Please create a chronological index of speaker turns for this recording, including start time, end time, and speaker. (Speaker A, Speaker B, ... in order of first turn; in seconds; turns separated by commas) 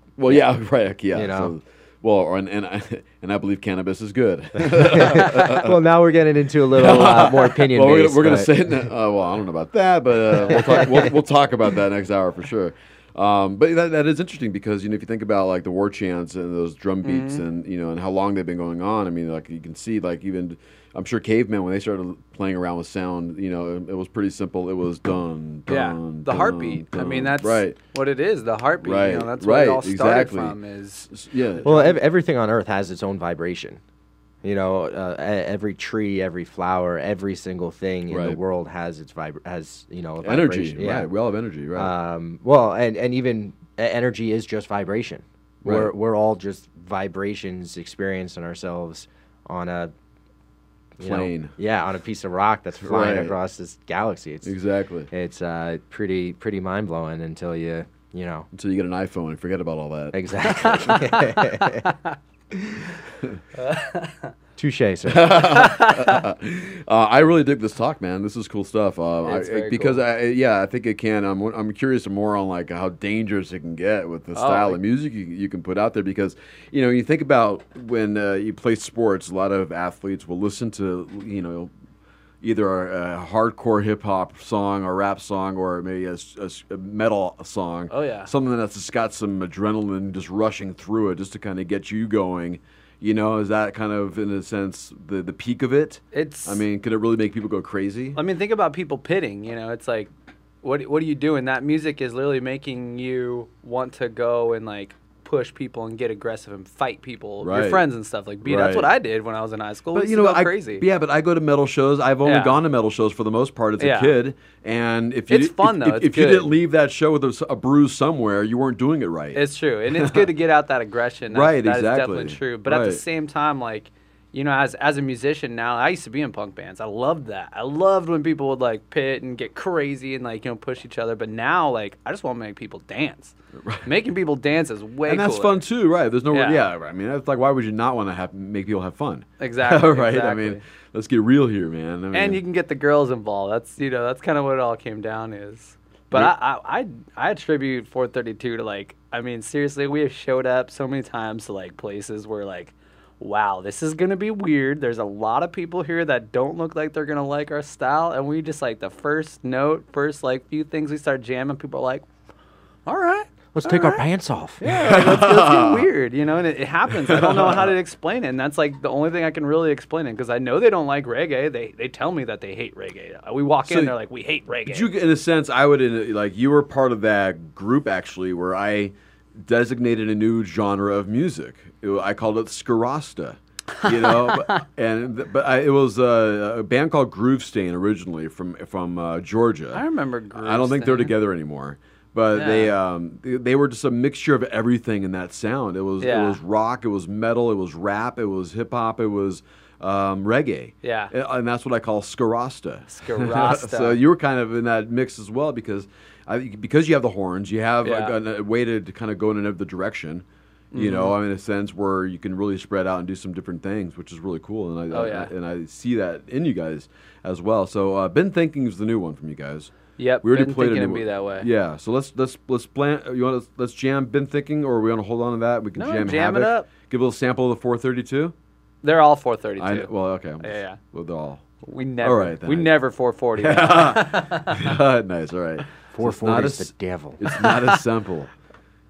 Speaker A: 0.2-5.8, Speaker B: 1.1-1.5, Speaker B: 4.6-8.5, Speaker A: 6.7-27.8, Speaker B: 10.4-11.1, Speaker C: 17.0-17.4, Speaker C: 25.7-31.1, Speaker A: 28.8-30.6, Speaker A: 31.1-31.9, Speaker C: 31.6-31.9, Speaker B: 31.6-33.8, Speaker B: 34.4-41.1, Speaker A: 38.1-38.4, Speaker A: 40.2-41.9, Speaker B: 41.8-49.9, Speaker A: 45.6-45.9, Speaker B: 51.0-54.5, Speaker A: 51.0-51.5, Speaker A: 52.8-53.3, Speaker A: 54.4-55.1, Speaker B: 55.1-58.5, Speaker A: 58.5-60.9, Speaker B: 60.1-61.9, Speaker C: 60.6-61.3, Speaker C: 63.6-64.3, Speaker B: 64.6-65.5, Speaker A: 65.1-81.7, Speaker C: 69.2-70.0, Speaker C: 74.3-74.8, Speaker A: 82.4-98.2, Speaker C: 87.9-88.3, Speaker C: 96.1-96.6, Speaker C: 98.1-100.1, Speaker C: 100.6-110.8, Speaker A: 107.4-107.9, Speaker A: 108.4-108.9, Speaker A: 109.9-120.2, Speaker C: 112.2-112.6, Speaker C: 113.8-114.1, Speaker C: 115.3-116.5, Speaker C: 119.3-133.3, Speaker A: 121.3-123.0, Speaker C: 133.8-135.6, Speaker A: 135.1-142.4, Speaker C: 136.3-136.6, Speaker C: 139.4-140.6, Speaker C: 142.1-162.0, Speaker C: 162.8-164.0, Speaker B: 163.5-164.6, Speaker C: 164.6-174.9, Speaker A: 164.7-165.9, Speaker A: 167.1-167.7, Speaker A: 173.7-173.9, Speaker A: 174.7-189.8, Speaker C: 183.8-184.6, Speaker C: 189.7-191.1, Speaker A: 190.3-228.3, Speaker C: 192.3-192.7, Speaker C: 196.0-196.4, Speaker C: 200.8-201.1, Speaker C: 202.9-204.0, Speaker C: 207.8-208.1, Speaker C: 210.7-211.2, Speaker C: 214.9-215.3, Speaker C: 220.0-221.5, Speaker C: 225.8-226.7, Speaker C: 228.8-229.9, Speaker A: 229.6-231.4, Speaker C: 230.4-230.8, Speaker C: 231.6-234.6, Speaker A: 232.0-232.7, Speaker A: 233.4-238.3, Speaker B: 235.9-237.3